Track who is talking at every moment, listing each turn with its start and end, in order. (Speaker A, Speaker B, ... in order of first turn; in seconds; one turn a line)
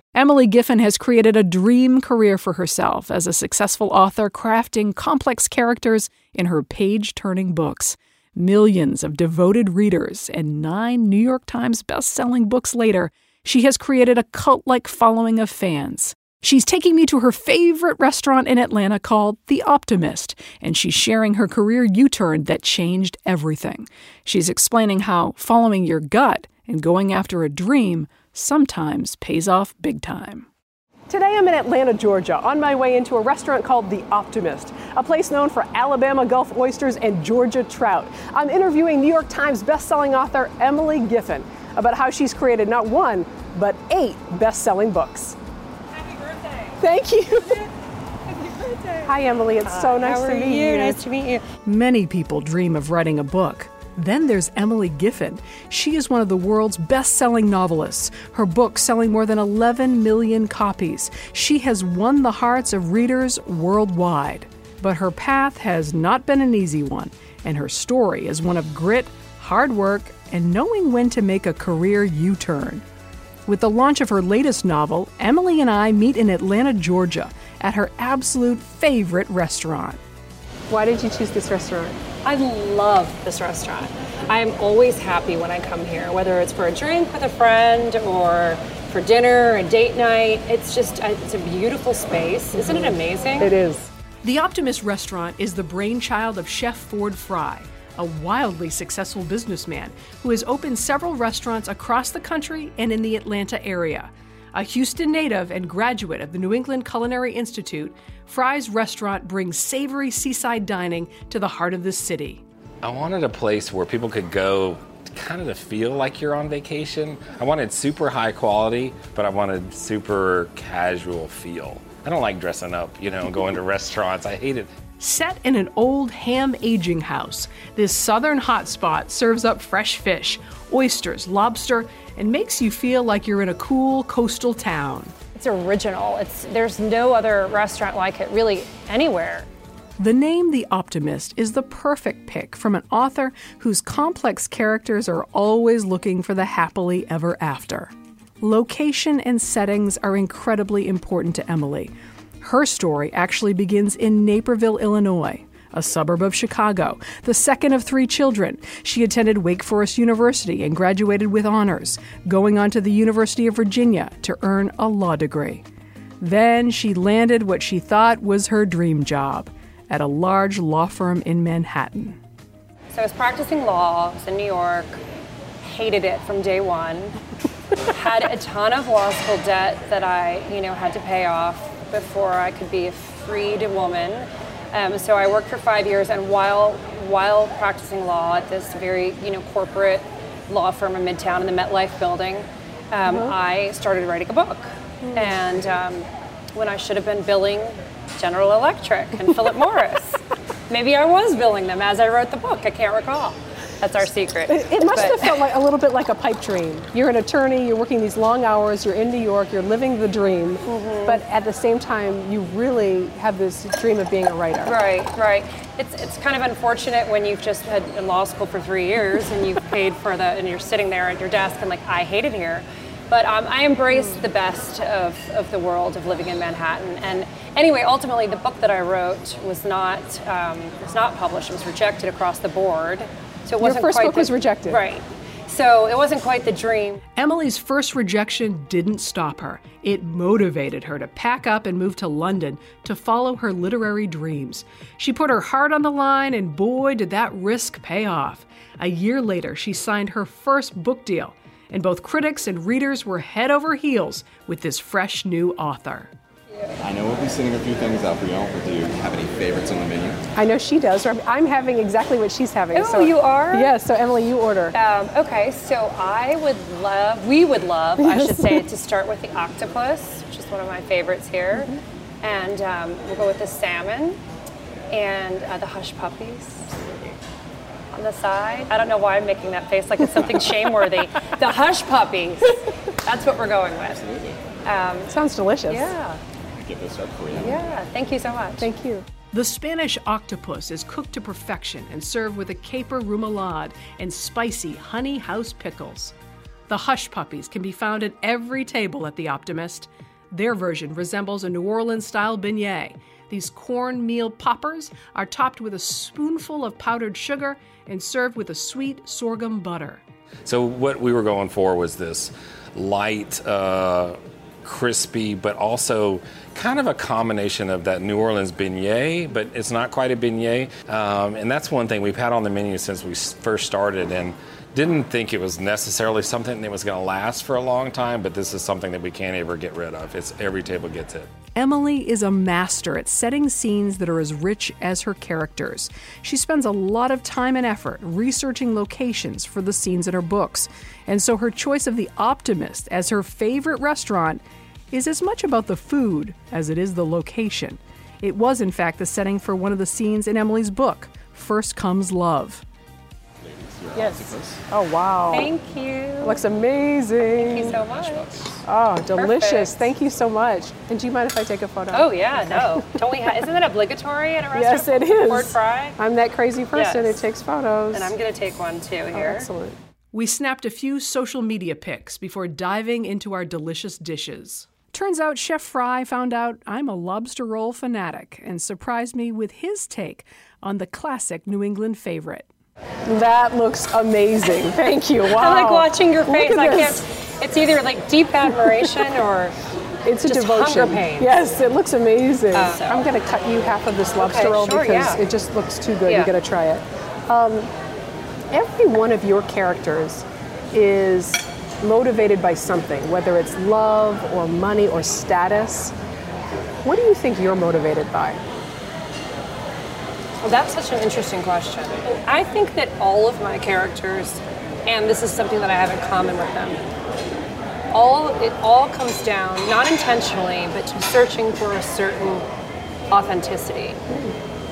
Speaker A: 0.1-30.5
Speaker B: 31.1-45.4
Speaker C: 46.0-46.8
Speaker B: 46.8-47.7
Speaker C: 48.3-49.1
Speaker B: 49.0-51.0
Speaker C: 49.6-51.4
Speaker A: 51.6-72.8
Speaker A: 73.5-80.0
Speaker B: 80.7-82.0
Speaker C: 82.2-93.5
Speaker B: 92.5-93.9
Speaker A: 94.2-112.4
Speaker D: 112.8-124.7
Speaker A: 125.0-135.1
Speaker C: 135.3-139.4
Speaker A: 140.0-165.6
Speaker A: 166.2-172.2
Speaker C: 172.9-175.0
Speaker C: 175.6-177.2
Speaker C: 177.8-205.3
Speaker B: 193.1-193.3
Speaker B: 195.0-195.4
Speaker B: 204.5-214.8
Speaker C: 210.6-211.2
Speaker C: 214.6-237.0
Speaker B: 233.6-234.8
Speaker A: 237.2-256.1
Speaker E: 256.8-260.2
Speaker B: 260.4-264.7
Speaker C: 262.7-263.7
Speaker C: 264.7-274.2
Speaker B: 268.0-268.6
Speaker C: 274.9-277.1
Speaker C: 277.9-284.1
Speaker C: 284.6-285.1
Speaker B: 285.1-285.9
Speaker C: 285.7-286.2
Speaker E: 286.6-287.6
Speaker C: 287.4-288.7
Speaker B: 288.6-289.1
Speaker A: 289.3-296.1
Speaker A: 296.7-310.0
Speaker D: 310.4-331.3
Speaker A: 331.5-352.6
Speaker E: 353.4-354.6
Speaker B: 353.9-355.5
Speaker C: 355.3-356.4
Speaker B: 356.2-357.8
Speaker C: 357.4-358.3
Speaker E: 357.5-358.6
Speaker B: 358.6-363.0
Speaker C: 359.1-359.9
Speaker C: 361.9-365.9
Speaker B: 364.5-368.1
Speaker C: 366.7-367.2
Speaker C: 367.9-369.5
Speaker B: 369.1-369.8
Speaker A: 370.1-382.5
Speaker B: 383.1-387.0
Speaker C: 385.3-389.5
Speaker B: 390.0-397.7
Speaker C: 390.2-391.3
Speaker C: 392.5-393.1
Speaker C: 394.2-395.2
Speaker C: 396.1-396.3
Speaker B: 398.5-405.9
Speaker B: 406.8-408.4
Speaker C: 410.4-416.8
Speaker C: 417.9-422.4
Speaker C: 423.1-424.0
Speaker B: 424.1-424.3